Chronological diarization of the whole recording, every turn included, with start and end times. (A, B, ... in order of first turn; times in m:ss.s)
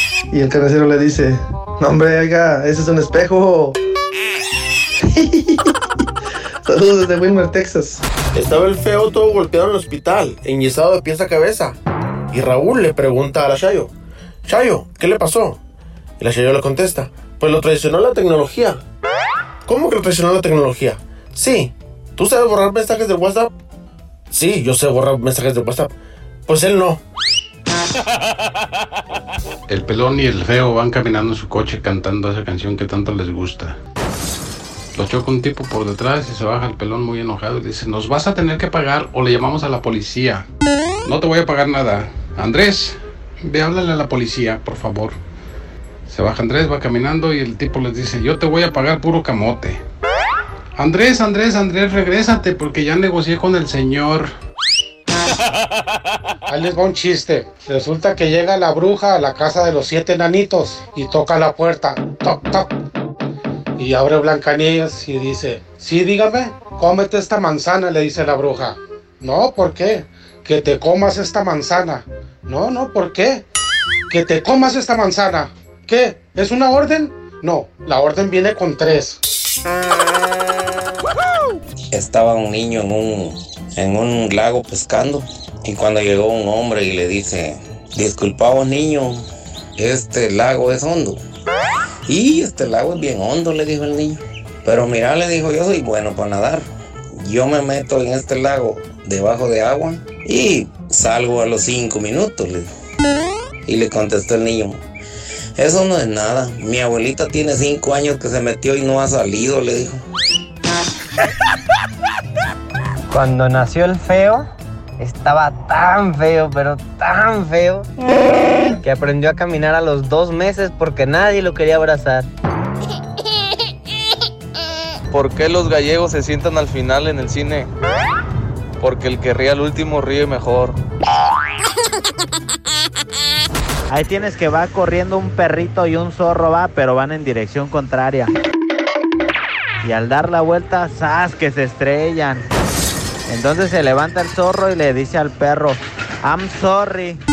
0:00.3-0:03.8 A
0:05.0-0:05.7 A
0:06.6-0:08.0 A
0:08.3-0:11.8 B
0:12.3-0:13.9 B
0:14.4-0:15.6 B
0:16.2-0:18.8 B
0:19.7-0:23.5 B
0:24.3-0:25.9 B
0:26.5-0:27.0 B
0:29.7-0:33.8 C
0:34.9-0:40.4 C
0:41.0-0:45.2 C
0:46.1-0:49.8 C
0:50.8-0:54.3 C
0:56.5-1:02.7 D
1:03.8-1:13.4 D
1:14.1-1:19.2 D
1:21.9-1:29.2 E
1:29.8-1:31.2 E
1:32.1-1:42.7 E
1:43.6-1:44.8 E
1:45.6-1:50.0 E
1:53.1-1:54.5 F
1:55.0-1:57.9 F
1:58.8-2:02.3 F
2:05.1-2:07.6 G
2:08.8-2:10.7 G
2:13.9-2:18.3 H
2:19.8-2:22.4 H
2:23.3-2:27.2 H